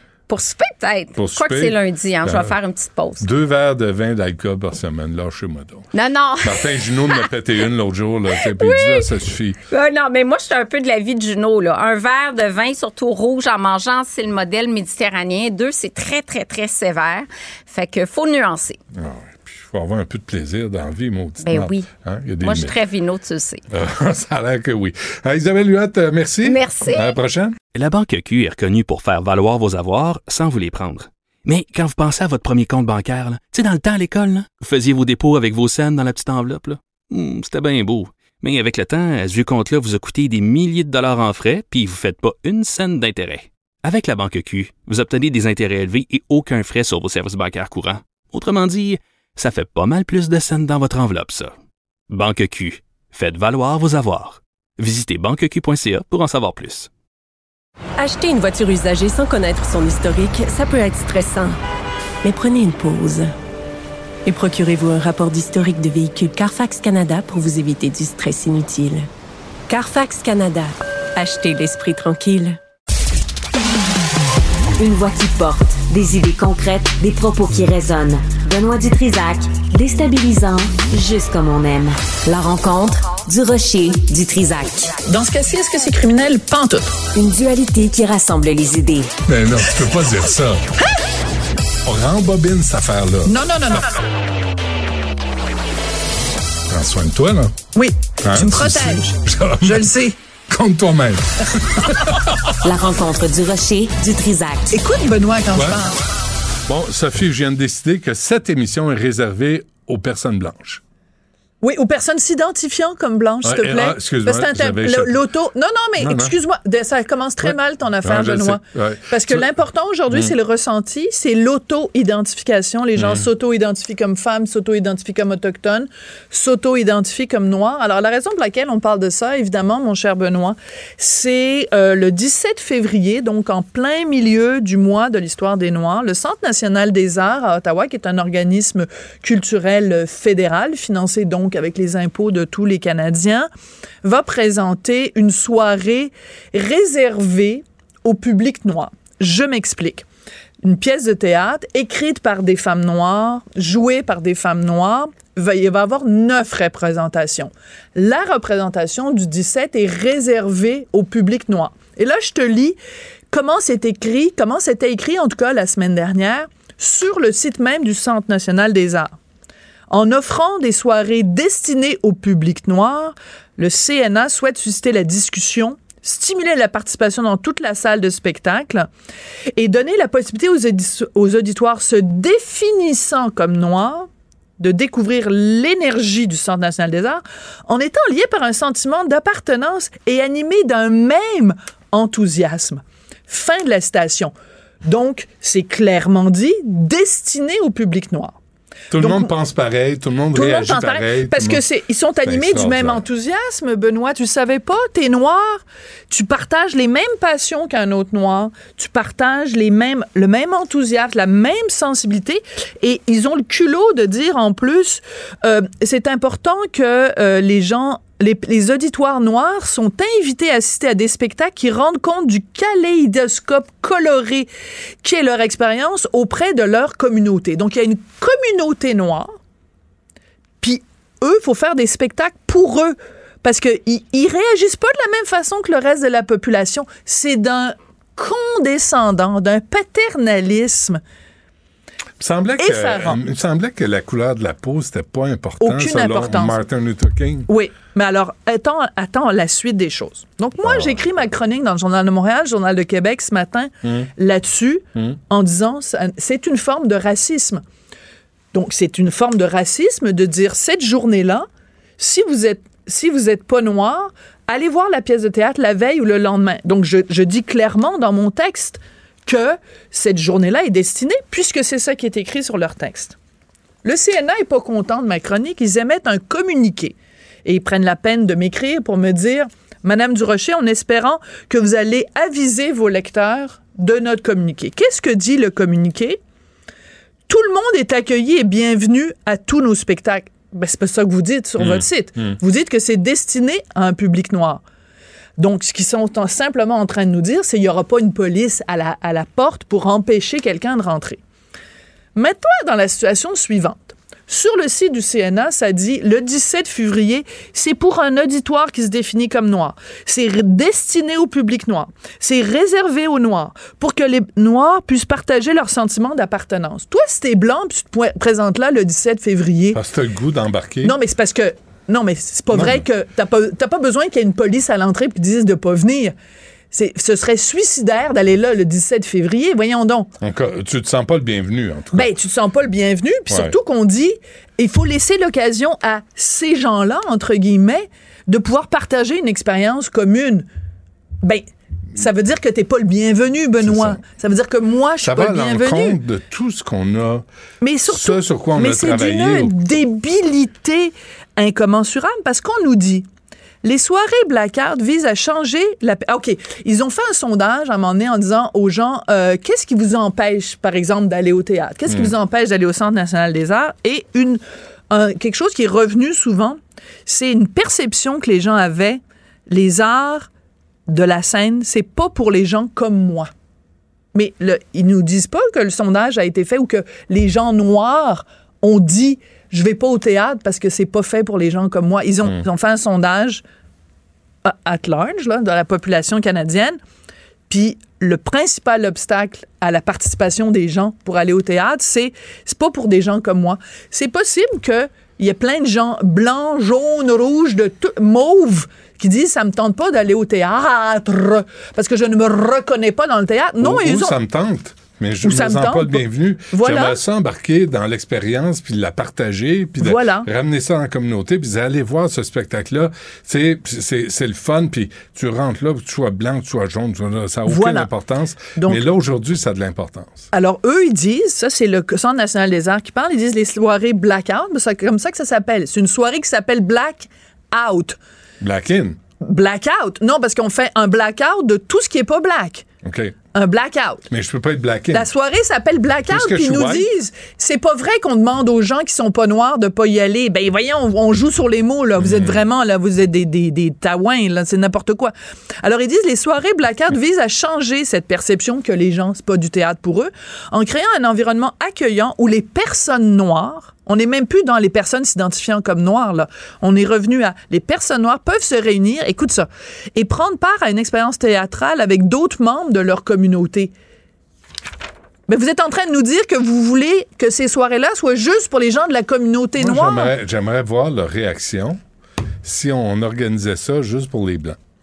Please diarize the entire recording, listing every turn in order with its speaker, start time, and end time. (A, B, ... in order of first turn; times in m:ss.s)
0:00.3-0:03.3 A
0:01.2-0:02.6 B
0:03.2-0:05.8 B
0:05.9-0:07.3 A
0:06.4-0:09.6 B
0:08.4-0:09.1 A
0:09.7-0:18.8 A
0:18.9-0:22.8 B
0:21.4-0:21.9 A
0:22.4-0:23.6 A
0:23.7-0:27.6 B
0:26.4-0:27.2 A
0:27.7-0:51.6 C
0:52.1-0:56.9 C
0:58.0-1:01.6 D
1:02.2-1:03.3 D
1:04.2-1:09.1 D
1:09.7-1:12.6 D
1:14.8-1:24.9 E
1:25.1-1:26.9 F
1:27.1-1:29.1 E
1:29.3-1:30.6 B
1:31.8-1:33.3 B
1:33.2-1:33.9 F
1:36.7-1:37.6 B
1:37.7-1:40.1 F
1:38.2-1:39.9 B
1:40.5-1:42.3 B
1:42.6-1:44.7 E
1:44.7-1:46.0 F
1:45.5-1:45.8 B
1:46.7-1:50.8 B
1:51.6-2:23.5 F
1:53.4-1:55.2 B
1:56.0-1:56.3 B
1:57.4-1:59.5 B
2:03.0-2:03.3 B
2:24.0-2:30.0 F
2:30.6-2:42.8 F
2:43.3-2:49.1 F
2:49.9-2:58.9 F
2:59.6-3:04.1 F
3:04.6-3:18.4 F
3:18.9-3:21.6 B
3:18.9-3:19.3 F
3:20.3-3:44.5 F
3:22.2-3:23.0 B
3:45.0-3:49.3 F
3:50.6-4:01.0 F
4:02.2-4:07.5 B
4:02.6-4:03.2 F
4:05.6-4:06.6 F
4:07.5-4:17.6 F
4:10.6-4:11.0 B
4:13.8-4:14.1 B
4:18.5-4:21.5 F
4:22.0-4:33.2 F
4:33.8-4:46.2 F
4:47.3-4:54.6 F
4:51.6-4:52.4 B
4:55.4-5:01.2 F
5:02.2-5:19.8 F
5:19.7-5:20.9 B
5:20.8-5:26.1 F
5:22.5-5:22.8 B
5:26.7-5:30.1 F
5:30.2-5:32.1 B
5:31.9-5:40.4 F
5:33.3-5:33.6 B
5:41.2-5:46.0 F
5:43.6-5:44.0 B
5:45.0-5:47.2 B
5:47.6-5:53.1 F
5:47.9-5:49.5 B
5:53.6-6:10.3 F
6:01.9-6:02.1 B
6:10.9-6:13.3 F
6:14.1-6:23.4 F
6:24.4-6:26.8 F
6:27.5-6:44.2 F
6:43.6-7:00.3 B
6:45.2-6:47.0 F
6:49.8-6:50.3 F
6:57.4-6:57.9 F
6:58.6-6:58.9 F
7:00.3-7:08.0 F
7:08.4-7:09.0 B
7:09.2-7:12.6 F
7:12.8-7:13.2 B
7:13.3-7:14.0 F
7:14.1-7:15.1 B
7:14.9-7:43.7 F
7:16.1-7:16.9 B
7:22.0-7:22.4 B
7:45.3-7:50.1 F
7:49.6-7:51.8 B
7:52.4-7:54.6 B